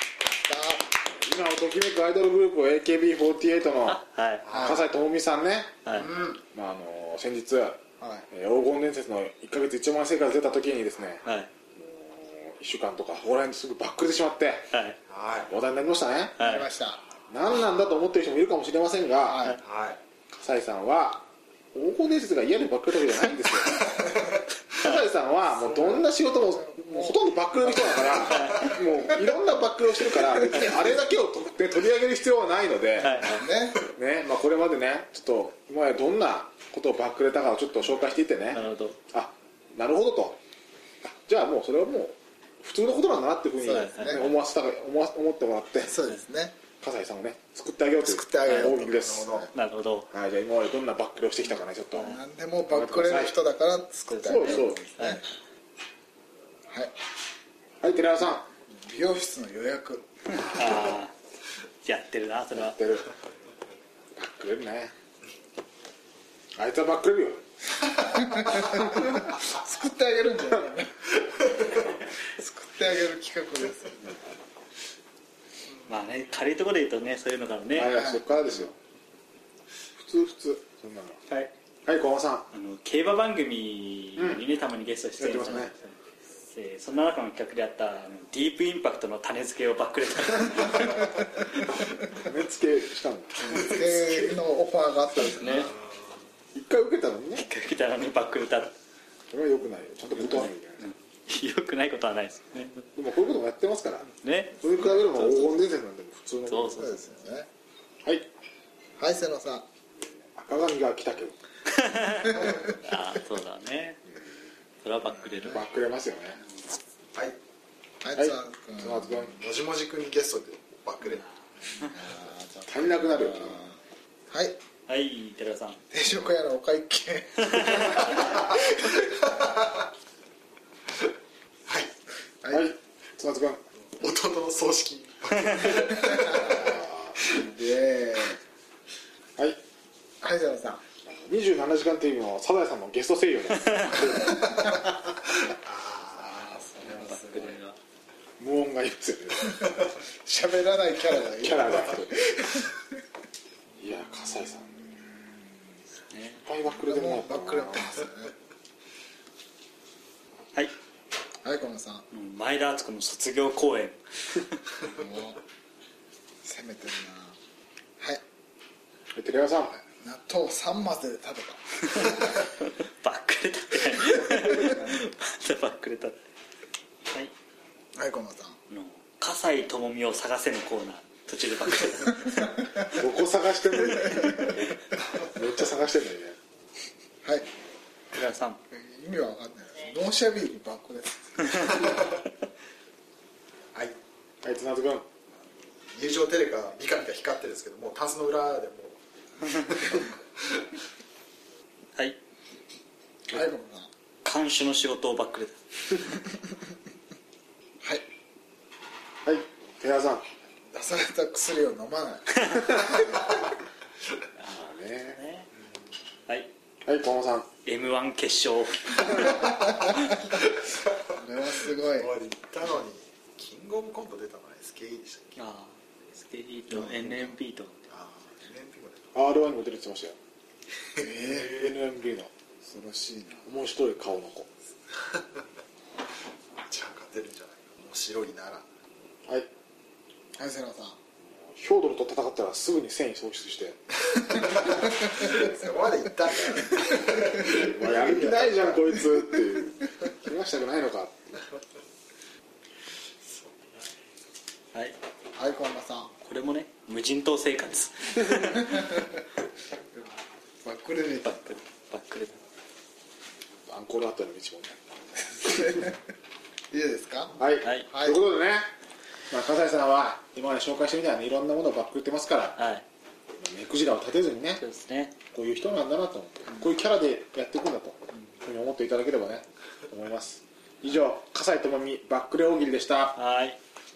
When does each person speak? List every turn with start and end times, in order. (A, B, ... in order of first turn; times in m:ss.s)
0:00.3-0:00.9 A
0:01.0-0:06.0 B
0:03.9-0:04.6 C
0:04.5-0:04.8 A
0:05.8-0:06.1 C
0:06.0-0:06.4 D
0:06.5-0:11.2 B
0:08.0-0:08.3 A
0:11.2-0:11.5 C
0:11.8-0:14.7 B
0:14.7-0:15.0 C
0:15.1-0:15.5 D
0:15.5-0:16.4 B
0:16.4-0:16.7 C
0:16.4-0:17.1 A
0:17.3-0:19.5 B
0:19.2-0:19.6 A
0:19.6-0:20.0 D
0:20.3-0:24.1 B
0:24.7-0:38.6 B
0:25.5-0:29.2 A
0:28.3-0:28.8 C
0:33.0-0:33.4 C
0:33.0-0:33.9 A
0:38.5-0:39.0 C
0:39.1-0:40.4 B
0:41.0-0:46.0 B
0:43.6-0:44.2 A
0:43.7-0:44.3 C
0:45.8-0:46.6 A
0:46.8-0:49.5 B
0:48.0-0:49.5 A
0:48.4-0:48.8 C
0:49.2-0:49.4 D
0:49.5-0:50.1 C
0:50.1-0:52.1 B
0:52.0-0:55.2 A
0:52.7-0:53.3 B
0:54.1-0:55.3 C
0:54.2-0:54.8 B
0:57.8-0:58.5 B
0:58.7-1:00.7 A
1:00.3-1:01.2 C
1:01.8-1:02.8 C
1:02.6-1:03.1 B
1:04.2-1:04.9 B
1:06.6-1:07.4 B
1:07.8-1:14.1 A
1:15.8-1:18.0 C
1:17.7-1:18.7 B
1:17.8-1:18.4 A
1:20.0-1:21.2 B
1:21.3-1:21.5 C
1:21.9-1:22.5 B
1:22.5-1:26.0 C
1:25.2-1:25.7 B
1:26.5-1:32.0 C
1:32.1-1:33.9 B
1:33.4-1:35.7 A
1:35.3-1:35.7 C
1:36.5-1:37.5 B
1:37.4-1:38.8 C
1:39.3-1:40.8 B
1:40.2-1:42.9 C
1:43.0-1:46.8 B
1:44.1-1:45.6 C
1:46.5-1:47.0 C
1:46.8-1:47.5 A
1:49.0-1:49.7 A
1:50.0-1:51.4 B
1:51.7-1:54.0 C
1:52.2-1:52.6 A
1:54.8-1:55.6 C
1:55.3-1:56.4 B
1:58.0-1:59.4 A
1:58.2-1:59.4 B
1:59.4-2:01.2 D
2:01.0-2:02.0 C
2:01.7-2:03.8 A
2:02.7-2:03.6 B
2:04.3-2:04.6 A
2:04.9-2:05.8 C
2:05.9-2:08.8 A
2:07.4-2:08.5 C
2:08.3-2:09.9 D
2:11.7-2:11.9 D
2:12.4-2:12.7 A
2:12.5-2:13.6 B
2:14.0-2:16.5 D
2:15.4-2:15.9 C
2:15.7-2:18.4 A
2:16.4-2:17.2 B
2:20.2-2:20.8 A
2:21.1-2:24.5 B
2:23.6-2:24.0 C
2:24.1-2:24.7 A
2:25.6-2:26.2 D
2:26.2-2:27.8 C
2:26.4-2:27.6 A
2:28.4-2:29.8 B
2:30.2-2:32.8 A
2:31.4-2:32.4 B
2:33.8-2:34.9 B
2:34.9-2:35.3 A
2:36.1-2:36.4 C
2:36.4-2:37.9 B
2:36.7-2:38.3 A
2:41.4-2:42.1 A
2:42.1-2:44.6 C
2:44.8-2:45.4 A
2:46.4-2:47.4 A
2:49.2-2:49.8 B
2:50.0-2:52.3 A
2:51.9-2:56.2 C
2:54.1-2:54.9 B
2:58.0-2:58.6 A
2:58.7-3:02.7 C
3:02.4-3:02.8 A
3:02.9-3:04.7 B
3:04.0-3:04.6 A
3:05.2-3:06.4 B
3:08.1-3:08.6 C
3:08.7-3:12.0 A
3:14.4-3:15.1 B
3:15.9-3:19.0 D
3:19.6-3:20.6 D
3:23.3-3:23.9 A
3:24.2-3:25.6 C
3:29.2-3:30.2 B
3:30.7-3:33.1 A
3:34.4-3:35.5 C
3:34.4-3:35.2 B
3:36.8-3:37.5 B
3:37.6-3:40.1 C
3:39.2-3:40.2 A
3:41.1-3:42.1 A
3:41.9-3:45.4 D
3:45.4-3:47.8 C
3:46.7-3:47.4 A
3:47.9-3:49.2 D
3:49.1-3:50.2 B
3:51.0-3:51.6 A
3:51.2-3:52.3 B
3:51.4-3:51.7 D
3:52.6-3:53.5 A
3:53.5-3:54.5 B
3:54.9-3:55.4 D
3:56.6-3:58.7 D
4:00.4-4:01.0 A
4:01.4-4:03.8 B
4:04.1-4:08.6 D
4:04.8-4:05.5 A
4:06.7-4:07.6 A
4:07.4-4:11.4 B
4:08.8-4:09.5 A
4:13.2-4:13.6 D
4:14.7-4:15.0 C
4:15.4-4:16.1 A
4:16.2-4:19.0 C
4:18.4-4:19.1 A
4:20.6-4:21.6 A
4:21.2-4:22.4 C
4:23.7-4:25.8 B
4:25.4-4:25.9 A
4:26.7-4:28.2 A
4:27.4-4:28.7 B
4:27.6-4:28.0 C
4:29.3-4:32.6 B
4:32.6-4:32.8 C
4:33.4-4:34.6 B
4:34.6-4:35.2 C
4:35.3-4:43.2 B
4:43.1-4:43.6 C